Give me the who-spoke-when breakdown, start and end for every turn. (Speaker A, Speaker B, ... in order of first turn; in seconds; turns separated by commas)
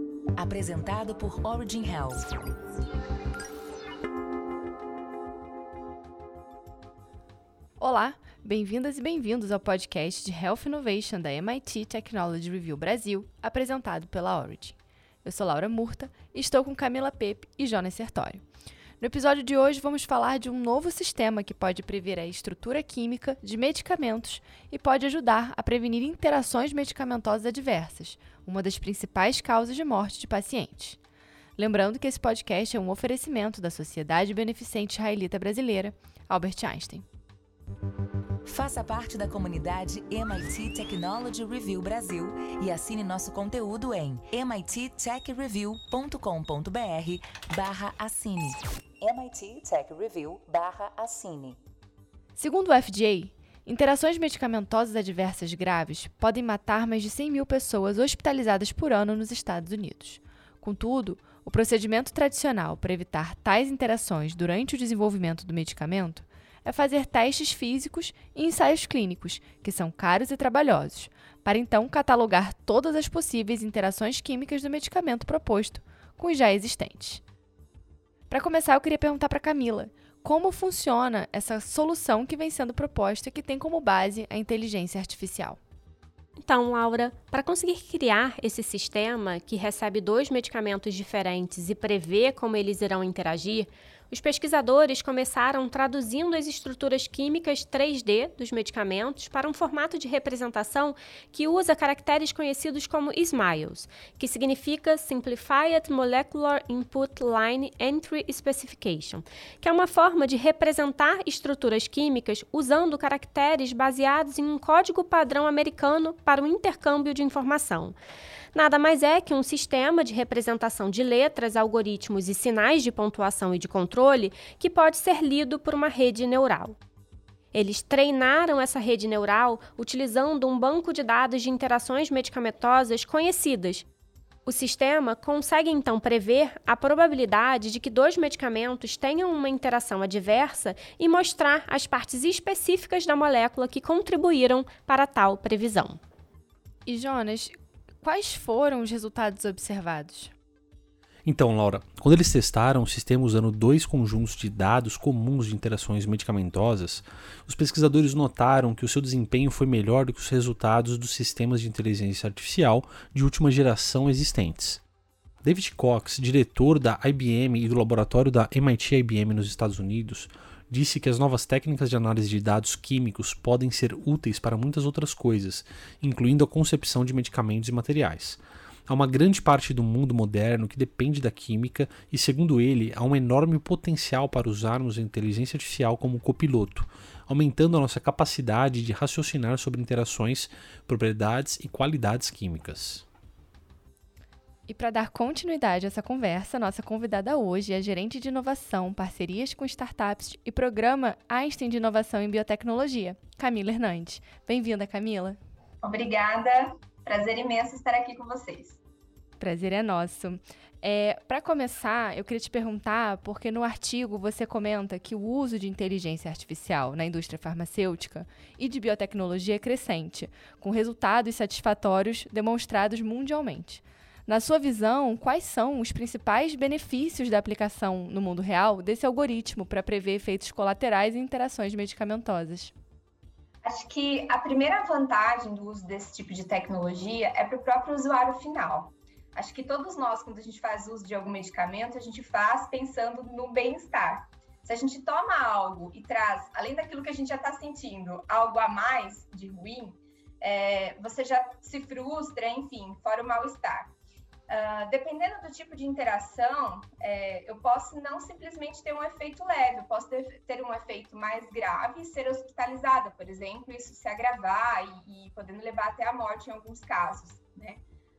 Speaker A: 0.4-2.3, Speaker B: 7.8-18.4, Speaker B: 19.0-31.0, Speaker B: 31.6-37.1, Speaker A: 38.5-51.6, Speaker B: 52.4-77.2, Speaker B: 78.3-85.6, Speaker C: 86.4-118.0, Speaker C: 118.5-126.8, Speaker C: 127.5-133.9, Speaker C: 134.5-146.0, Speaker B: 146.9-150.3, Speaker D: 151.2-164.8, Speaker D: 165.4-193.1, Speaker B: 194.7-205.4, Speaker E: 205.8-208.8, Speaker B: 209.4-232.7, Speaker E: 233.6-253.9, Speaker E: 254.5-267.8